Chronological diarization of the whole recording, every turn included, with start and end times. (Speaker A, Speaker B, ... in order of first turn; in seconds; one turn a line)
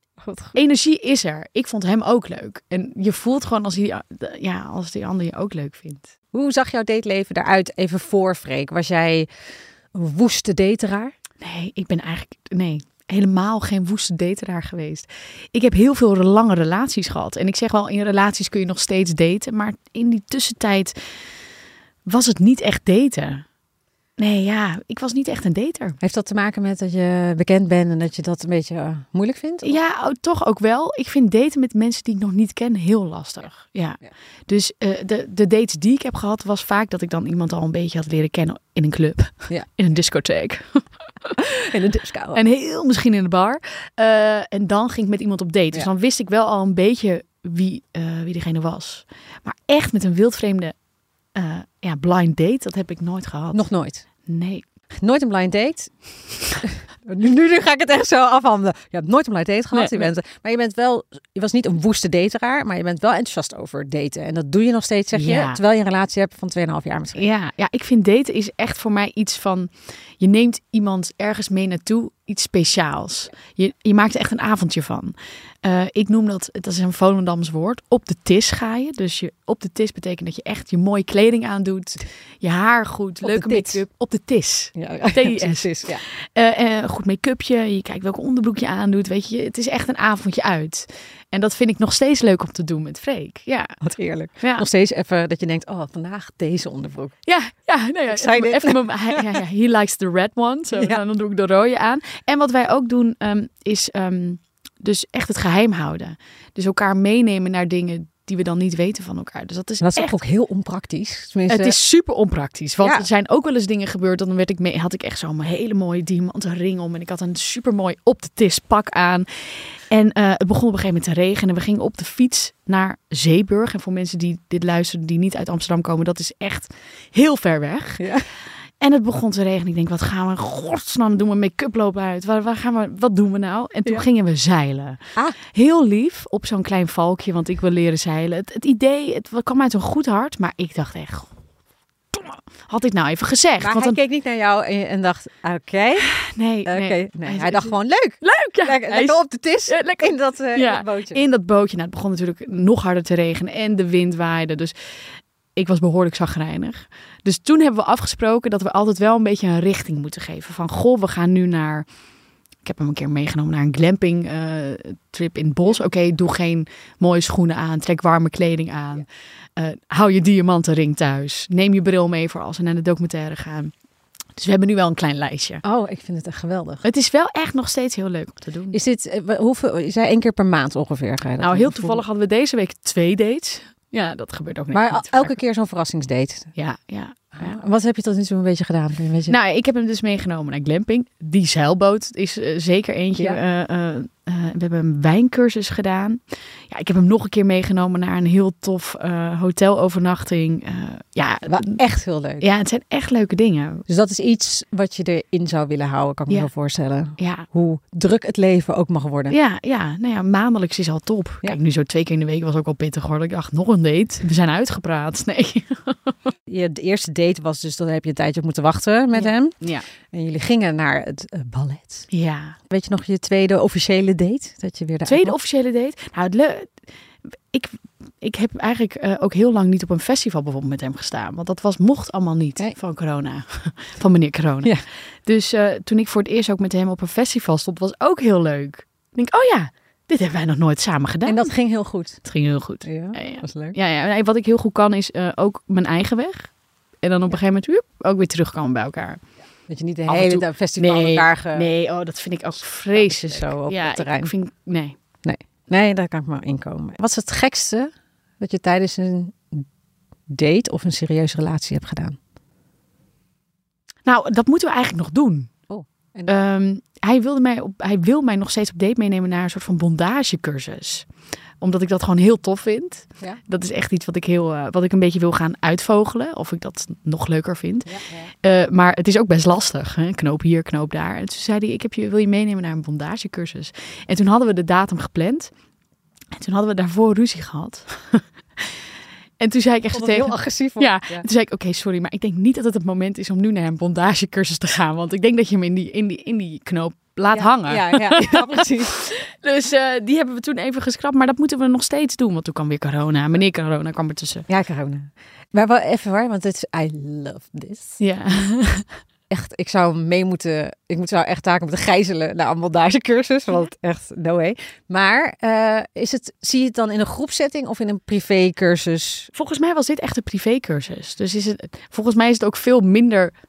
Speaker A: 0.2-0.5
Speaker B: 0.5-6.1
Speaker A: 6.3-9.3
Speaker A: 9.9-11.1
Speaker B: 11.4-21.0
Speaker B: 22.1-23.4
Speaker B: 24.2-26.0
Speaker A: 26.0-29.8
Speaker B: 29.6-41.4
Speaker A: 41.4-42.4
Speaker B: 42.3-50.7
Speaker B: 51.3-53.6
Speaker A: 53.5-54.0
Speaker B: 54.3-54.6
Speaker A: 55.0-67.2
Speaker B: 59.7-60.1
Speaker B: 65.1-65.6
Speaker B: 67.1-93.7
Speaker A: 83.2-83.8
Speaker A: 84.8-86.0
Speaker A: 93.8-97.1
Speaker B: 94.4-94.7
Speaker B: 97.2-110.2
Speaker A: 98.1-99.3
Speaker A: 109.8-111.8
Speaker B: 111.5-128.1
Speaker A: 128.0-128.3
Speaker B: 128.8-141.3
Speaker B: 142.1-144.0
Speaker A: 143.6-146.1
Speaker B: 146.0-154.7
Speaker A: 146.7-151.2
Speaker B: 155.6-161.8
Speaker B: 162.6-169.1
Speaker B: 169.6-173.7
Speaker B: 174.3-175.6
Speaker A: 175.6-176.8
Speaker B: 176.8-178.8
Speaker A: 178.7-182.0
Speaker B: 181.4-185.3
Speaker A: 184.7-186.5
Speaker B: 186.6-187.6
Speaker A: 187.4-189.3
Speaker B: 189.3-201.8
Speaker A: 201.5-202.4
Speaker B: 202.4-203.8
Speaker A: 203.9-209.3
Speaker B: 207.2-207.5
Speaker B: 209.3-216.2
Speaker A: 216.5-219.6
Speaker B: 219.1-219.8
Speaker A: 220.1-222.1
Speaker B: 222.1-222.6
Speaker A: 222.7-225.4
Speaker B: 225.1-226.8
Speaker B: 227.5-234.7
Speaker B: 235.2-241.5
Speaker A: 241.2-242.2
Speaker B: 242.2-246.5
Speaker A: 242.8-243.8
Speaker B: 247.0-249.2
Speaker A: 249.7-251.7
Speaker B: 250.1-254.9
Speaker A: 252.9-254.3
Speaker A: 255.2-259.6
Speaker A: 260.3-262.2
Speaker B: 264.1-265.5
Speaker A: 265.7-266.3
Speaker B: 266.3-271.1
Speaker B: 271.6-285.5
Speaker A: 277.9-278.3
Speaker B: 286.3-288.7
Speaker B: 289.4-304.4
Speaker A: 289.9-291.2
Speaker A: 297.3-299.0
Speaker A: 304.5-308.0
Speaker B: 308.0-308.9
Speaker A: 309.3-319.3
Speaker B: 319.3-323.3